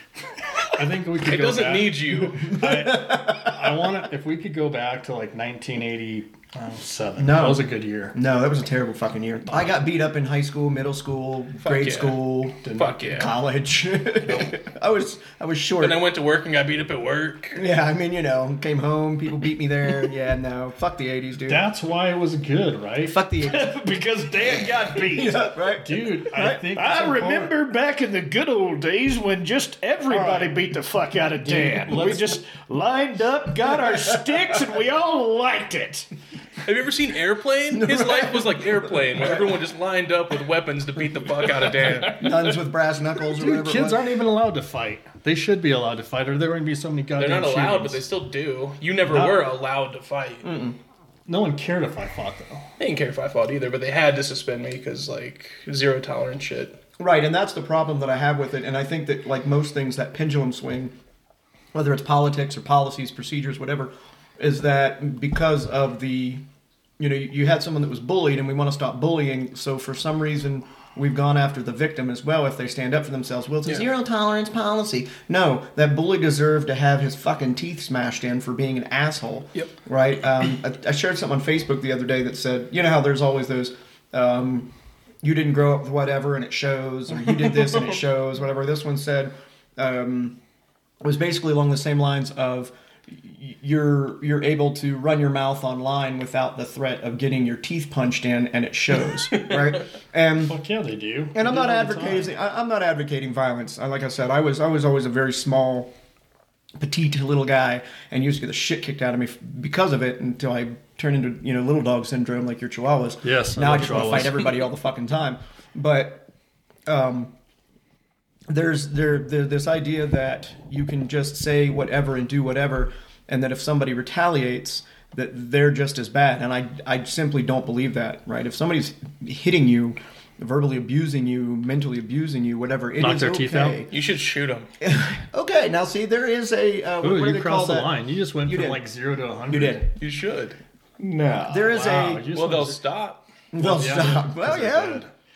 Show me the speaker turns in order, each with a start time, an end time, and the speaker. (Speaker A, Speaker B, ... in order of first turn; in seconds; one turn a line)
Speaker A: 0.7-8.2
Speaker B: 1.2-2.5
Speaker C: 2.5-3.9
Speaker C: 7.2-16.0
Speaker B: 11.6-13.3
Speaker A: 12.6-13.1
Speaker A: 14.2-14.5
Speaker B: 15.8-17.6
Speaker C: 17.6-21.7
Speaker A: 21.5-23.2
Speaker C: 23.1-23.8
Speaker D: 23.4-25.5
Speaker C: 24.9-26.7
Speaker A: 25.8-27.5
Speaker D: 26.7-36.1
Speaker C: 30.1-30.6
Speaker A: 31.4-32.4
Speaker B: 36.6-42.5
Speaker C: 37.7-39.6
Speaker C: 41.8-44.1
Speaker A: 43.4-48.0
Speaker B: 47.2-50.5
Speaker C: 49.1-49.4
Speaker C: 50.4-50.8
Speaker A: 51.3-52.7
Speaker B: 52.8-56.8
Speaker C: 57.0-60.9
Speaker C: 61.7-66.4
Speaker C: 67.0-84.7
Speaker C: 85.2-90.4
Speaker C: 91.0-100.6
Speaker A: 100.5-102.3
Speaker C: 101.3-105.9
Speaker C: 106.8-116.3
Speaker A: 113.2-114.5
Speaker C: 116.9-117.3
Speaker C: 118.5-133.9
Speaker A: 133.0-133.8
Speaker B: 133.9-134.7
Speaker C: 134.8-137.9
Speaker A: 137.0-139.9
Speaker C: 138.4-138.8
Speaker C: 139.5-139.9
Speaker B: 140.0-140.6
Speaker D: 141.0-141.7
Speaker C: 141.5-142.3
Speaker A: 141.7-142.8
Speaker B: 142.3-143.2
Speaker C: 143.5-145.0
Speaker A: 143.6-145.1